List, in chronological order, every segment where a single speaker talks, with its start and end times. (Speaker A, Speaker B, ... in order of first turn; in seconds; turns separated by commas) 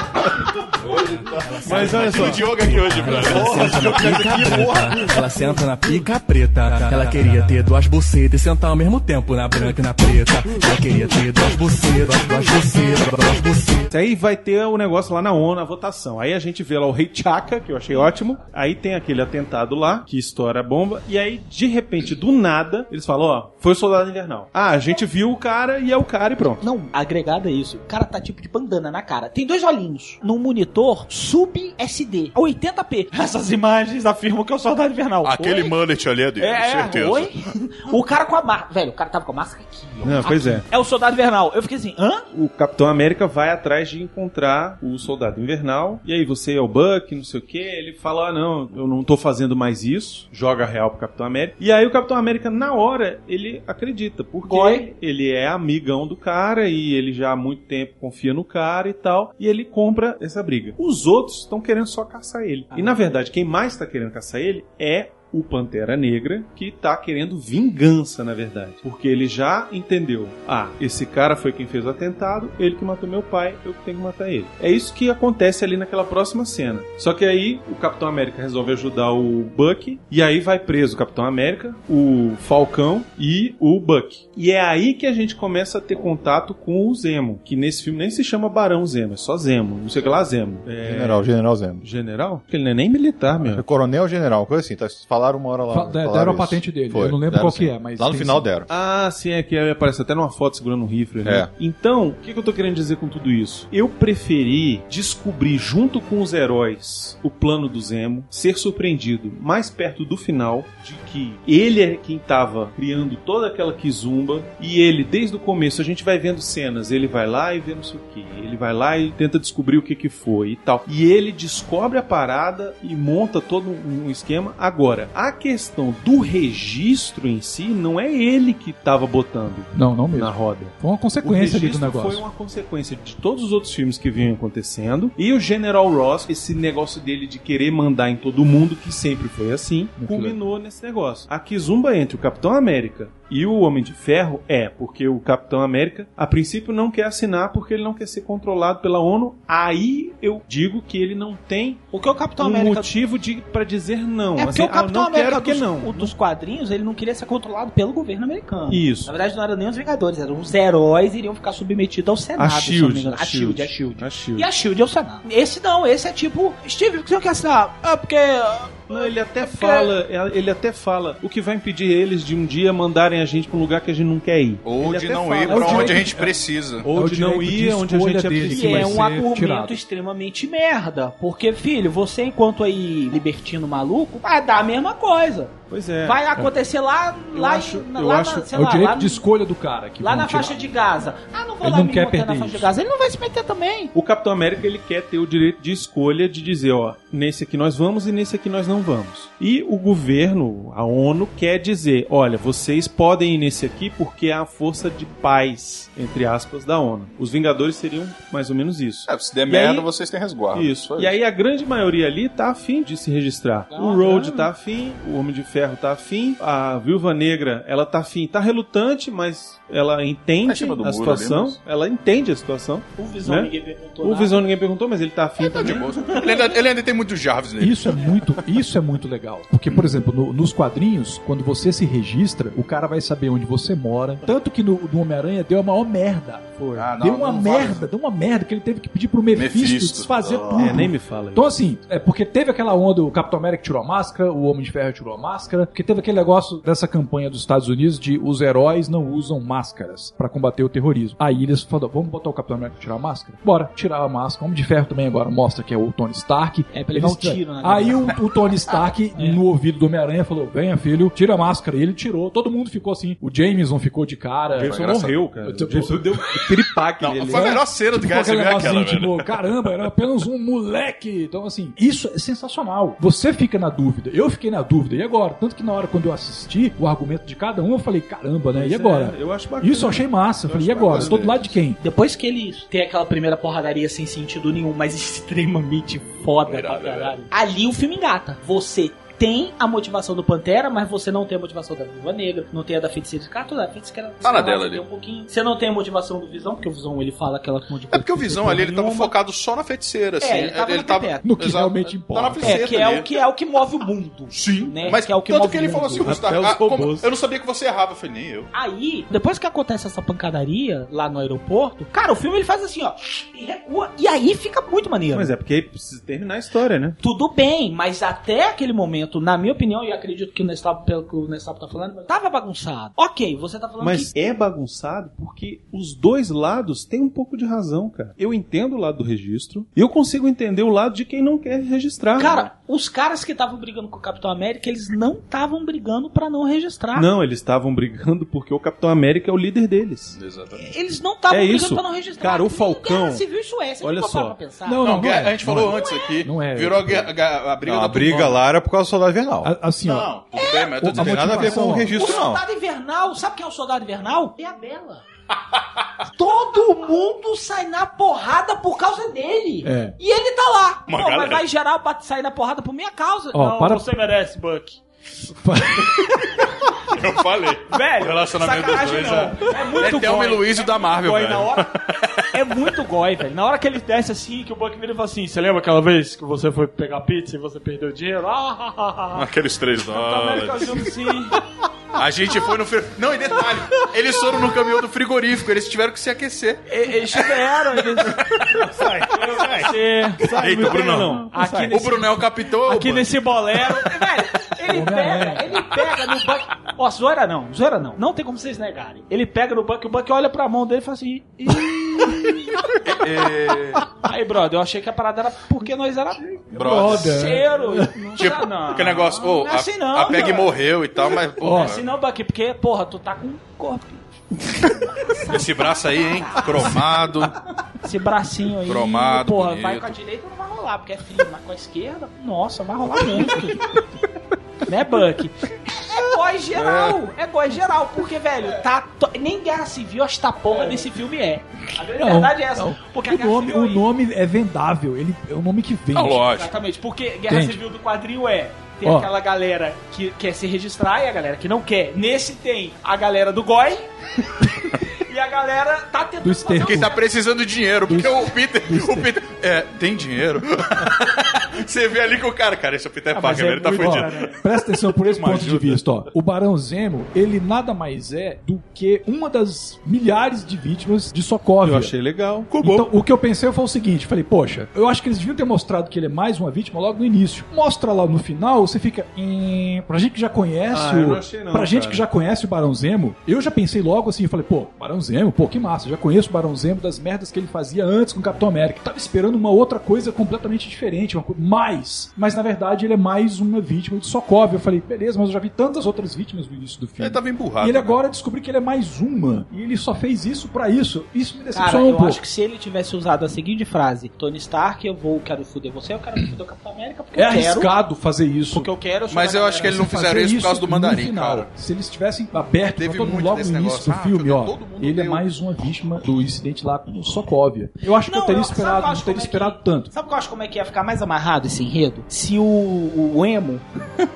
Speaker A: 1.1-4.0, Speaker B: 1.4-13.9, Speaker C: 1.6-2.6, Speaker D: 3.1-5.2, Speaker C: 3.1-3.6, Speaker C: 13.9-26.6, Speaker E: 26.6-35.7, Speaker A: 35.2-37.3, Speaker E: 36.4-42.2, Speaker C: 40.0-40.7, Speaker C: 42.3-91.3, Speaker E: 54.4-54.9, Speaker D: 90.8-91.8, Speaker C: 91.8-93.6, Speaker D: 93.4-98.7, Speaker F: 95.7-98.5, Speaker C: 98.7-151.8, Speaker D: 101.2-101.5, Speaker F: 129.7-132.2, Speaker F: 140.0-140.4, Speaker E: 151.9-152.9, Speaker C: 152.4-156.1, Speaker E: 154.3-169.9, Speaker C: 158.7-159.1, Speaker C: 162.3-164.5, Speaker C: 168.9-176.3, Speaker A: 174.6-176.8, Speaker F: 175.5-176.3, Speaker C: 176.8-179.1, Speaker F: 176.9-179.8, Speaker E: 178.4-189.2, Speaker C: 185.7-186.2, Speaker C: 187.3-188.5, Speaker F: 188.5-190.6, Speaker E: 190.0-193.9, Speaker F: 191.6-192.7, Speaker C: 193.9-209.9, Speaker A: 209.1-211.2, Speaker C: 210.5-225.9, Speaker E: 213.7-214.5, Speaker A: 220.4-221.6, Speaker E: 222.9-224.4, Speaker A: 225.4-228.2, Speaker E: 226.1-226.6, Speaker F: 227.6-264.8, Speaker C: 236.6-236.9, Speaker A: 236.8-237.9, Speaker A: 239.3-240.8, Speaker C: 240.6-241.5, Speaker E: 256.7-258.2, Speaker E: 259.1-259.4, Speaker C: 264.5-267.6, Speaker A: 264.6-265.2, Speaker F: 265.4-266.5, Speaker A: 267.0-269.3, Speaker F: 267.2-281.8, Speaker C: 278.5-281.6, Speaker E: 281.8-299.1, Speaker A: 286.4-287.2, Speaker A: 294.2-294.8, Speaker A: 297.9-303.1, Speaker E: 300.2-301.2, Speaker F: 301.2-302.6, Speaker E: 302.4-306.1, Speaker A: 304.3-308.5, Speaker C: 306.0-307.1, Speaker E: 308.5-315.3, Speaker C: 315.1-317.0, Speaker E: 317.0-324.1, Speaker C: 323.8-332.5, Speaker E: 332.2-337.1, Speaker C: 336.9-340.2, Speaker A: 340.2-340.7, Speaker E: 340.6-346.2, Speaker C: 341.3-343.2, Speaker C: 343.8-344.4, Speaker F: 344.6-347.1, Speaker A: 344.8-348.4, Speaker D: 347.6-349.5, Speaker F: 349.4-350.1, Speaker A: 349.8-351.5, Speaker E: 350.3-350.9, Speaker F: 350.8-351.9, Speaker D: 350.9-352.4, Speaker E: 351.6-355.0, Speaker E: 356.1-364.8, Speaker F: 359.6-359.9, Speaker A: 360.9-361.4, Speaker F: 363.3-363.9, Speaker F: 365.4-366.2, Speaker A: 365.8-372.5, Speaker E: 367.7-371.7, Speaker E: 372.3-379.2, Speaker A: 379.1-381.1, Speaker E: 379.9-381.4, Speaker A: 381.9-388.7, Speaker E: 386.7-388.2, Speaker C: 388.5-391.9, Speaker E: 389.1-390.2, Speaker A: 390.2-393.1, Speaker E: 391.3-403.0, Speaker F: 394.7-395.5, Speaker A: 402.6-403.9, Speaker E: 403.9-417.0, Speaker F: 406.5-408.0, Speaker A: 406.5-407.3, Speaker A: 408.1-411.9, Speaker F: 411.4-411.8, Speaker A: 415.2-417.4, Speaker E: 417.8-423.7, Speaker A: 418.6-419.9, Speaker E: 424.6-433.8, Speaker A: 426.5-427.0, Speaker F: 432.0-436.2, Speaker A: 435.9-436.5, Speaker E: 436.2-447.0, Speaker F: 437.3-437.6, Speaker F: 438.8-439.1, Speaker F: 446.2-446.9, Speaker A: 446.6-454.4, Speaker F: 447.9-449.1, Speaker E: 453.1-454.4, Speaker F: 453.6-461.9, Speaker A: 454.9-455.9, Speaker C: 461.6-462.9, Speaker F: 462.6-492.2, Speaker C: 470.7-472.1, Speaker A: 487.0-488.0, Speaker E: 491.5-497.7, Speaker F: 497.1-498.7, Speaker E: 498.5-499.8, Speaker A: 499.1-501.5, Speaker F: 499.6-509.9, Speaker A: 502.7-505.2, Speaker E: 508.0-513.6